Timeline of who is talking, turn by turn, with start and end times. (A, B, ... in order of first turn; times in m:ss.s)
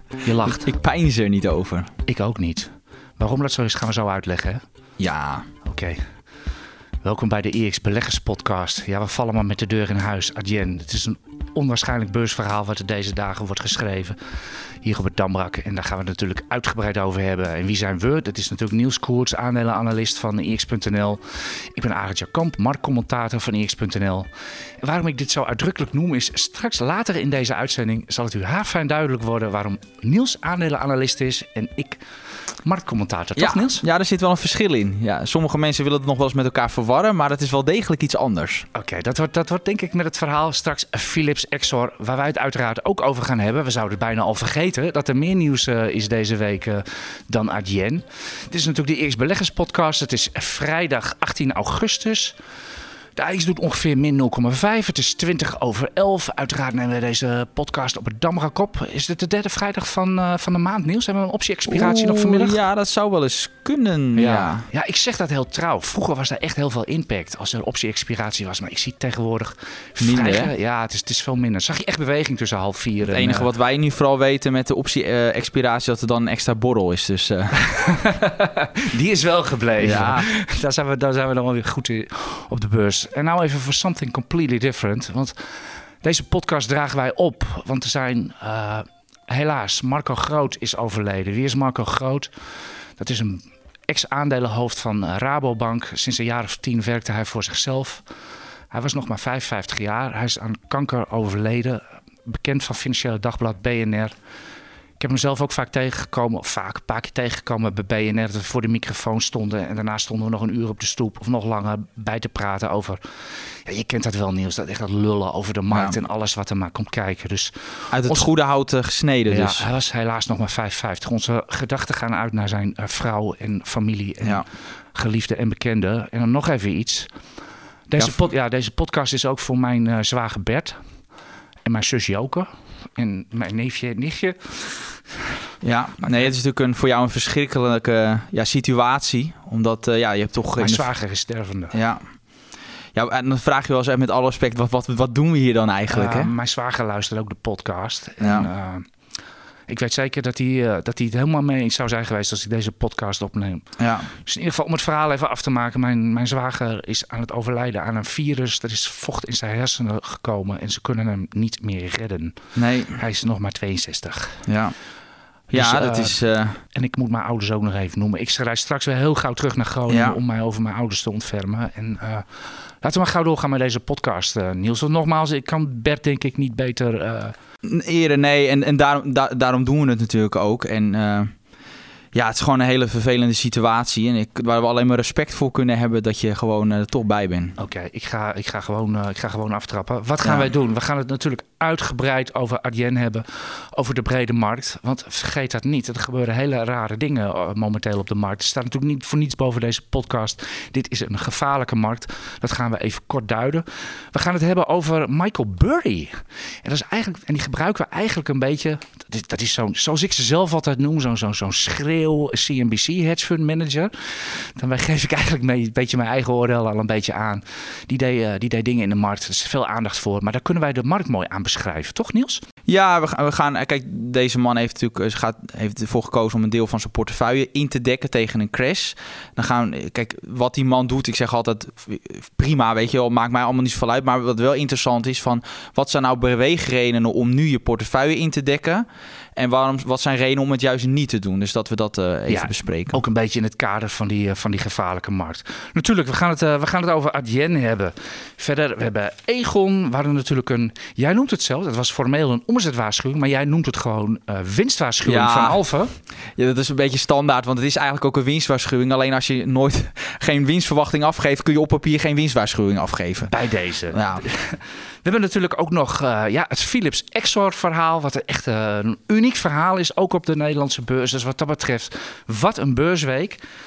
0:00.2-0:00.7 A
0:00.4-0:01.9 B
0:02.1-0:04.6 A
0:05.0-0:05.5 B
0:05.6-0:06.1 A
0:07.0-0:14.2 A
0:14.8-0:24.3 A
0:24.8-0:32.0 A
0:32.6-0:33.8 A
0:33.4-0:38.7 B
0:38.7-0:52.3 A
0:53.2-1:02.6 A
1:01.7-1:04.6 B
1:04.1-1:13.5 A
1:10.0-1:10.5 B
1:13.0-1:17.6 B
1:17.7-1:32.3 A
1:19.8-1:20.2 B
1:33.0-1:38.0 A
1:38.7-1:44.1 A
1:45.0-1:53.0 A
1:53.5-1:58.3 A
1:55.7-1:56.0 B
1:57.9-1:59.7 B
1:59.3-2:07.1 A
2:07.9-2:10.8 A
2:11.6-2:15.3 A
2:15.6-2:20.9 B
2:16.0-2:16.3 A
2:20.6-2:21.7 A
2:21.7-2:22.0 B
2:22.9-2:26.3 B
2:25.9-2:28.9 A
2:28.2-2:28.5 B
2:29.7-2:42.4 A
2:33.8-2:34.1 B
2:42.6-2:43.0 B
2:42.9-2:44.4 A
2:44.5-2:44.7 B
2:45.5-2:46.6 B
2:45.5-2:46.2 A
2:46.7-2:57.3 A
2:49.9-2:50.2 B
2:57.6-3:01.3 B
3:02.1-3:07.6 B
3:07.6-3:42.4 A
3:10.2-3:10.5 B
3:42.7-4:03.0 B
4:02.3-4:15.9 A
4:15.0-4:15.6 B
4:16.4-4:23.3 B
4:23.3-4:33.4 A
4:23.9-4:24.2 B